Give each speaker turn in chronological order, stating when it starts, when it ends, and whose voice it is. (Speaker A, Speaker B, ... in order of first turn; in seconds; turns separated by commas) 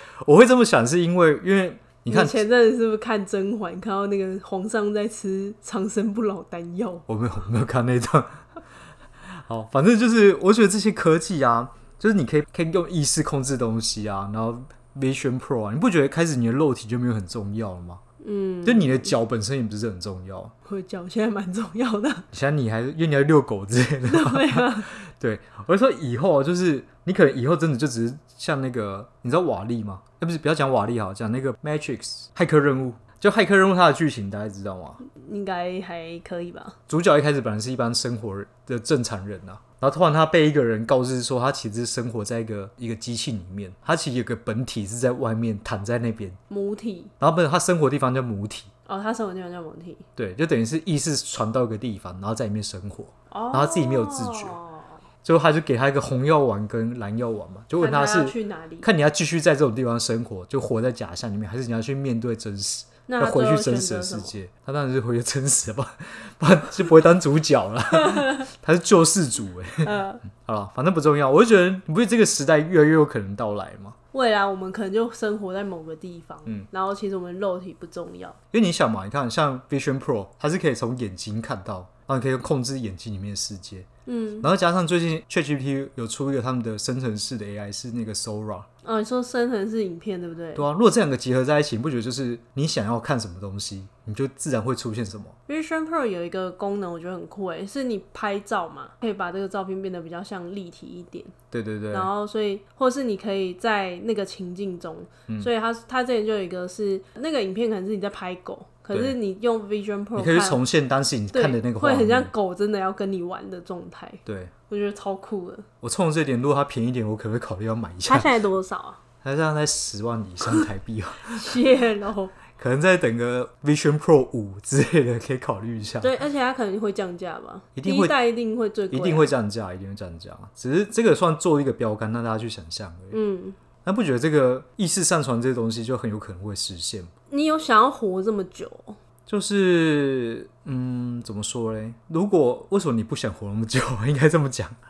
Speaker A: 0.2-2.5, Speaker B: 2.1-7.0, Speaker A: 7.1-8.4, Speaker A: 9.3-18.0, Speaker B: 18.2-19.1, Speaker A: 18.6-20.5, Speaker B: 20.6-22.2, Speaker A: 22.3-35.0, Speaker B: 24.1-24.9, Speaker B: 35.0-36.8, Speaker A: 36.9-46.4, Speaker B: 46.5-47.1, Speaker A: 47.2-48.7, Speaker B: 48.9-50.0, Speaker A: 50.1-54.5, Speaker B: 53.3-55.0, Speaker A: 55.2-74.0, Speaker B: 57.8-58.9, Speaker B: 63.1-64.3, Speaker B: 68.0-68.5, Speaker B: 69.8-70.2, Speaker B: 74.1-78.3, Speaker A: 78.5-83.9, Speaker B: 84.0-84.5, Speaker A: 84.4-88.7, Speaker B: 88.8-90.7, Speaker A: 90.5-95.3, Speaker B: 95.5-101.3, Speaker A: 101.5-102.1, Speaker B: 101.9-110.6, Speaker A: 110.2-112.3, Speaker B: 111.3-115.7, Speaker A: 114.2-114.5, Speaker A: 115.8-118.3, Speaker B: 118.0-119.0, Speaker A: 119.2-121.5, Speaker B: 121.3-122.3, Speaker A: 122.5-126.1, Speaker B: 126.0-129.3, Speaker A: 127.8-128.2, Speaker A: 128.9-133.2, Speaker B: 133.1-133.6, Speaker A: 133.8-137.1, Speaker B: 137.3-139.0, Speaker A: 139.3-144.8